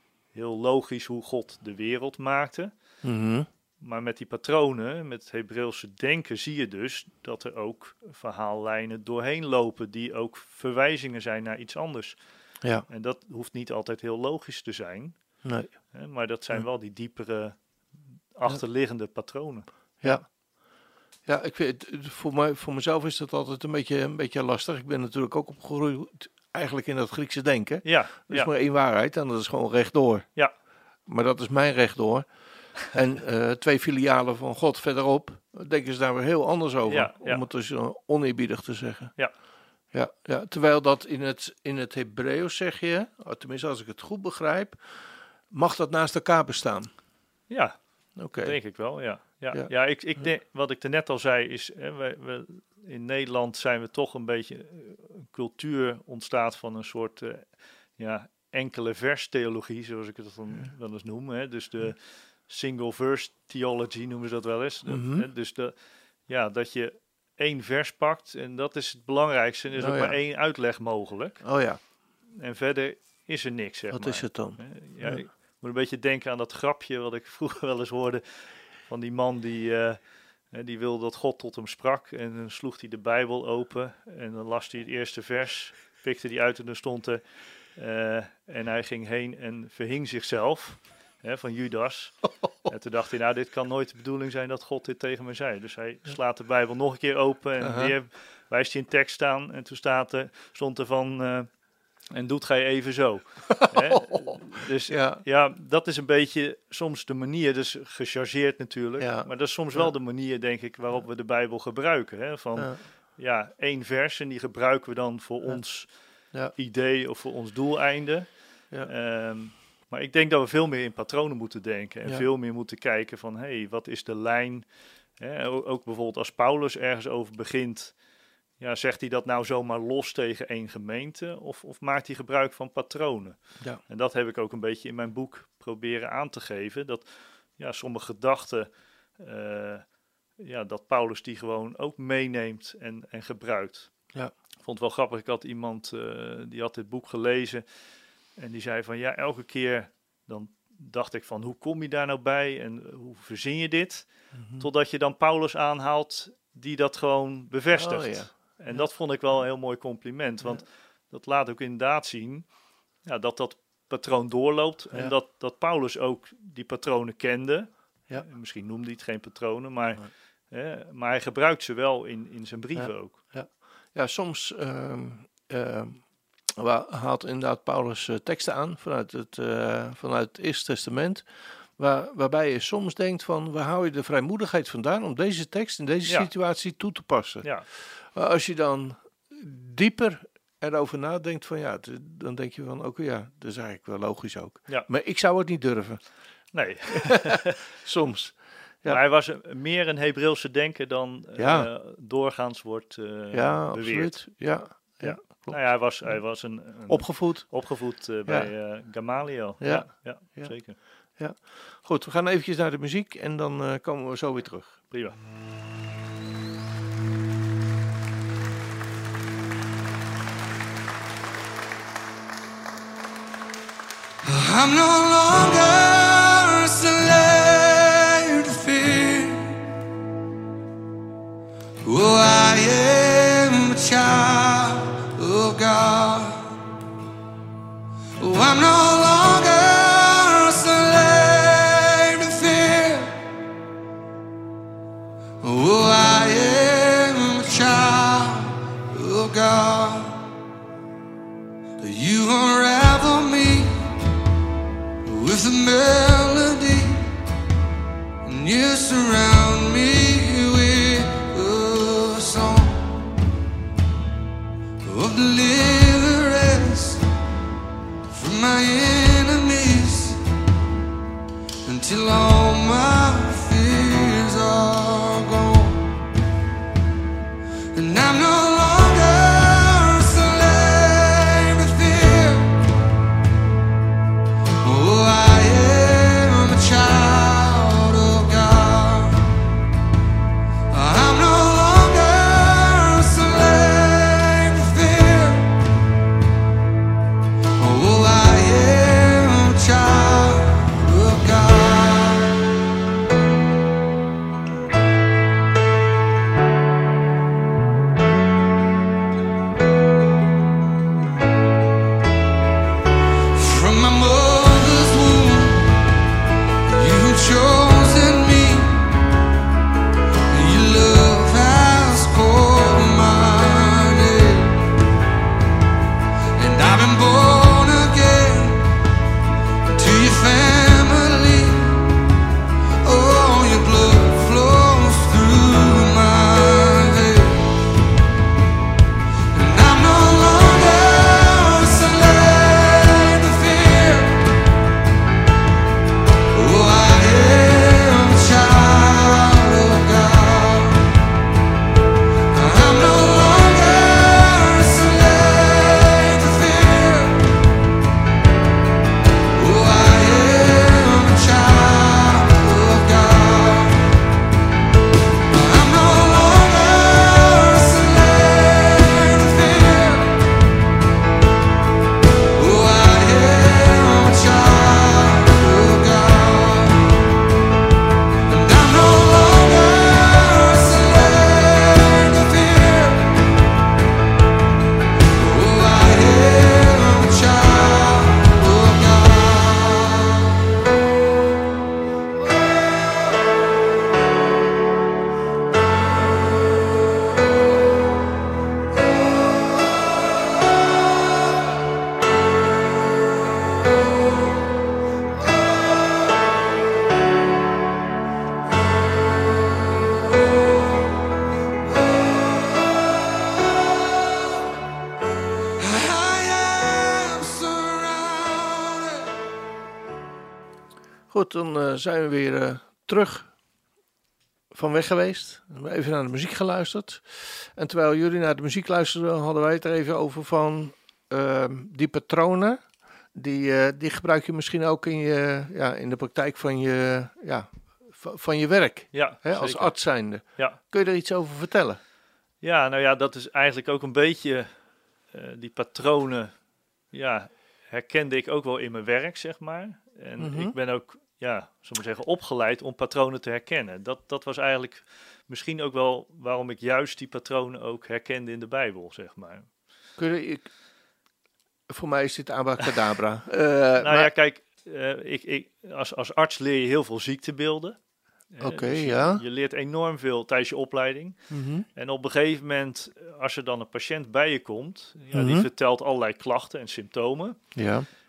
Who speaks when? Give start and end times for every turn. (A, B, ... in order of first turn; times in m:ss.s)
0:00.3-0:02.7 A
0:03.0-0:03.5 B
0:03.8-0:12.2 A
0:12.9-0:15.2 A
0:15.4-0:15.7 B
0:15.9-0:17.6 A
0:18.3-0:20.2 A
0:21.2-0:30.2 B
0:27.8-0:28.5 A
0:31.1-0:32.3 B
0:32.9-0:39.1 B
0:36.9-0:37.4 A
0:39.9-0:44.8 B
0:45.5-0:46.9 B
0:47.5-0:47.8 A
0:48.2-0:48.6 B
0:48.4-1:05.7 A
1:04.9-1:05.3 B
1:06.3-1:11.4 A
1:09.7-1:10.2 B
1:11.4-1:11.8 B
1:12.4-1:18.2 A
1:13.9-1:15.2 B
1:18.9-1:20.0 A
1:20.5-1:27.2 A
1:27.8-1:41.5 A
1:37.6-1:37.9 B
1:42.1-1:55.9 A
1:43.5-1:45.2 B
1:49.0-1:49.9 B
1:56.5-1:58.3 A
1:58.8-2:04.6 A
2:05.2-2:07.9 A
2:08.6-2:17.0 A
2:17.6-2:19.8 A
2:20.4-2:23.9 A
2:24.6-2:27.6 A
2:28.4-2:34.1 A
2:34.3-2:34.7 B
2:34.6-2:42.4 A
2:37.7-2:38.9 B
2:43.0-2:53.2 A
2:52.8-3:01.2 B
3:01.8-3:07.4 B
3:08.0-3:16.0 B
3:16.5-3:17.6 A
3:16.9-3:19.0 B
3:18.9-3:24.2 A
3:21.4-3:21.7 B
3:23.3-3:26.2 B
3:25.0-3:30.8 A
3:26.9-3:27.5 B
3:29.6-3:30.5 B
3:31.2-3:34.8 B
3:34.9-3:35.1 A
3:44.2-3:49.6 C
3:51.8-3:56.6 C
3:58.2-4:03.2 C
4:05.4-4:10.2 C
4:11.8-4:13.9 C
4:15.0-4:17.1 C
4:18.2-4:23.1 C
4:24.8-4:27.0 C
4:28.1-4:30.2 C
4:31.6-4:35.9 C
4:37.7-4:42.6 C
4:44.6-4:49.3 C
4:50.7-4:55.5 C
4:57.6-5:02.4 C
5:13.3-5:15.7 C
5:16.7-5:18.9 C
5:20.3-5:24.6 C
5:26.4-5:28.6 C
5:29.6-5:31.9 C
5:32.8-5:37.5 C
5:39.3-5:44.2 C
5:46.3-5:50.9 C
5:52.3-5:57.3 C
5:59.3-6:03.9 C
6:05.3-6:10.2 C
6:12.3-6:17.0 C
6:18.3-6:23.1 C
6:25.1-6:30.3 C
6:55.6-6:59.1 C
7:01.1-7:03.3 B
7:04.5-7:12.6 B
7:13.1-7:21.8 B
7:18.9-7:19.7 A
7:22.4-7:24.5 A
7:25.1-7:26.3 A
7:26.9-7:39.5 A
7:30.2-7:30.6 B
7:40.0-7:40.5 B
7:41.7-7:44.1 B
7:43.8-7:47.8 A
7:48.3-7:51.2 A
7:48.4-7:49.2 B
7:51.3-7:51.7 B
7:51.7-7:57.4 A
7:55.1-7:55.5 B
7:57.6-7:57.9 B